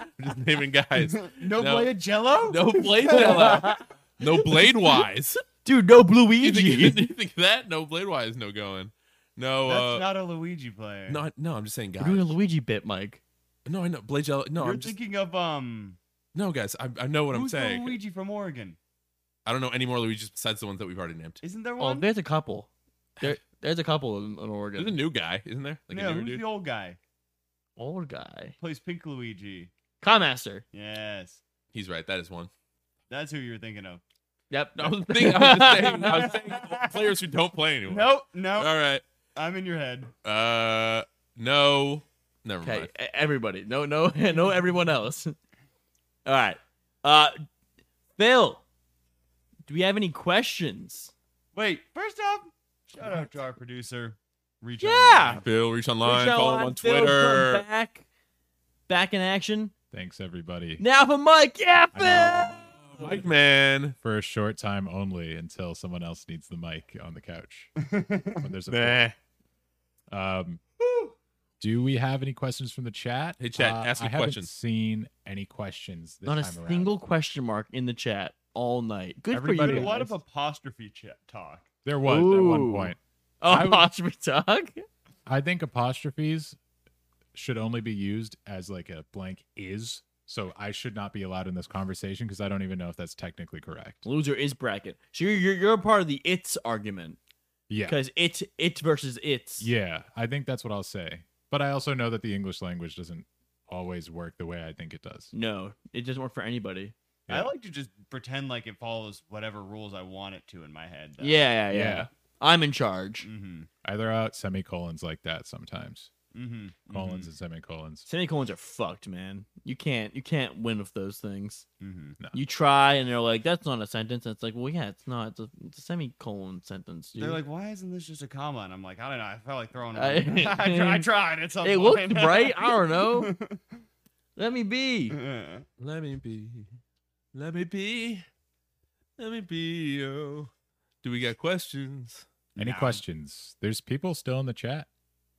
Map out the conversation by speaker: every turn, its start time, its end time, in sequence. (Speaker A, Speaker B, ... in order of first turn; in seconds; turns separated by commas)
Speaker A: 0.1-1.9, Speaker B: 1.1-3.7, Speaker A: 2.4-5.4, Speaker C: 3.1-3.8, Speaker C: 5.6-7.1, Speaker A: 6.4-10.1, Speaker B: 9.6-11.2, Speaker A: 11.1-12.3, Speaker C: 12.0-13.2, Speaker A: 13.7-14.9, Speaker B: 14.6-16.0, Speaker A: 16.3-17.9, Speaker B: 17.3-18.8, Speaker A: 19.4-21.4, Speaker B: 21.4-22.1, Speaker C: 21.8-22.7, Speaker C: 23.2-25.0, Speaker A: 24.8-26.4, Speaker B: 25.9-27.0, Speaker C: 27.8-28.5, Speaker B: 28.6-29.7, Speaker C: 30.0-30.6, Speaker B: 30.7-31.4, Speaker A: 31.7-32.5, Speaker B: 33.1-34.0, Speaker C: 34.5-36.3, Speaker A: 34.8-39.0, Speaker B: 36.0-37.0, Speaker B: 37.9-38.7, Speaker B: 39.4-40.1, Speaker A: 40.2-42.9, Speaker C: 42.6-45.3, Speaker C: 46.2-47.3, Speaker C: 48.1-48.6, Speaker C: 49.7-51.1, Speaker B: 51.5-55.5, Speaker C: 54.8-55.4, Speaker A: 55.3-57.6, Speaker C: 56.0-58.0, Speaker C: 58.9-59.7, Speaker D: 59.9-60.8, Speaker C: 60.8-62.6, Speaker D: 61.9-62.7, Speaker A: 62.9-64.0, Speaker D: 64.0-67.7, Speaker B: 67.8-68.5, Speaker D: 68.4-69.1, Speaker A: 68.7-69.1, Speaker D: 70.1-70.6, Speaker D: 71.6-76.9, Speaker A: 73.4-74.5, Speaker C: 76.2-80.0, Speaker D: 79.3-80.1, Speaker B: 79.6-81.7, Speaker D: 81.8-83.9, Speaker C: 82.0-84.8, Speaker D: 85.2-86.5, Speaker D: 87.3-94.0, Speaker C: 94.0-97.2, Speaker D: 97.7-98.0, Speaker C: 97.8-99.7, Speaker D: 99.6-105.3, Speaker C: 105.3-106.9, Speaker B: 107.3-111.5, Speaker C: 111.2-113.2, Speaker D: 111.7-112.1, Speaker B: 113.2-113.7, Speaker D: 113.8-116.1, Speaker B: 116.3-117.3, Speaker D: 116.9-118.0, Speaker C: 118.1-121.6, Speaker B: 121.8-122.2, Speaker C: 122.3-127.4, Speaker B: 127.1-133.6, Speaker C: 129.9-131.1, Speaker C: 131.6-133.3, Speaker C: 134.3-135.2, Speaker B: 135.1-135.7, Speaker A: 135.8-136.7, Speaker A: 137.3-138.2, Speaker A: 139.2-140.5, Speaker A: 141.0-142.3, Speaker B: 142.6-143.0, Speaker D: 142.6-144.9